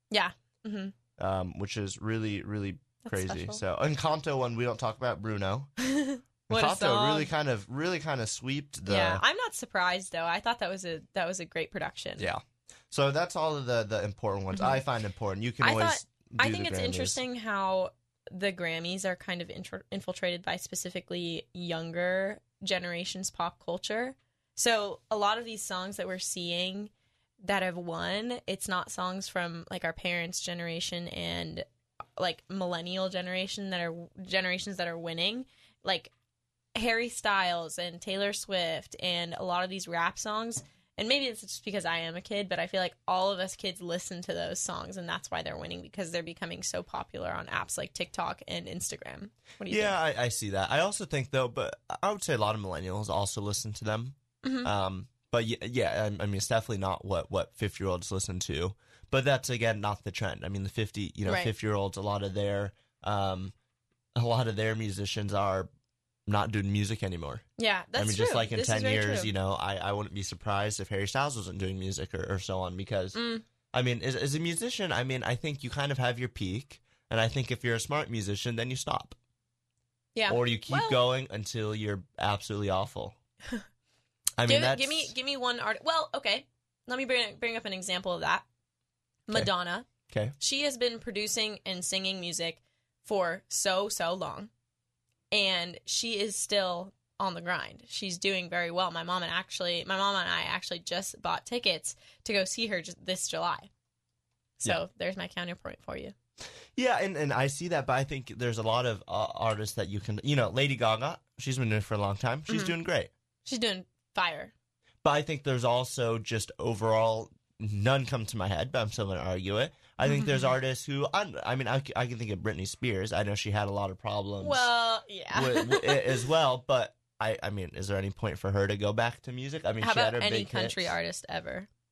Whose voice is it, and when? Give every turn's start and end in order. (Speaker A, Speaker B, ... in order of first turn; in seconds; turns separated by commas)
Speaker A: 0.1-0.9, Speaker B: 1.2-5.7, Speaker A: 3.0-3.6, Speaker A: 5.8-7.3, Speaker B: 6.5-9.2, Speaker A: 8.9-12.3, Speaker B: 12.2-17.2, Speaker A: 14.5-14.8, Speaker A: 15.6-31.7, Speaker A: 32.2-36.1, Speaker A: 36.8-50.0, Speaker B: 49.7-63.5, Speaker A: 54.4-54.7, Speaker A: 61.3-61.5, Speaker B: 64.2-65.7, Speaker B: 66.3-67.5, Speaker A: 67.6-69.3, Speaker B: 68.0-73.2, Speaker A: 73.2-73.5, Speaker B: 73.7-79.2, Speaker A: 80.2-81.0, Speaker B: 80.3-83.2, Speaker B: 84.4-85.1, Speaker A: 84.5-88.5, Speaker A: 89.3-89.9, Speaker B: 90.1-90.3, Speaker A: 90.4-94.5, Speaker A: 95.3-103.7, Speaker A: 104.6-106.1, Speaker B: 106.8-113.1, Speaker A: 112.5-112.7, Speaker A: 113.5-114.5, Speaker B: 115.0-124.7, Speaker A: 120.0-120.5, Speaker A: 124.4-126.2, Speaker B: 125.3-130.9, Speaker A: 129.8-131.7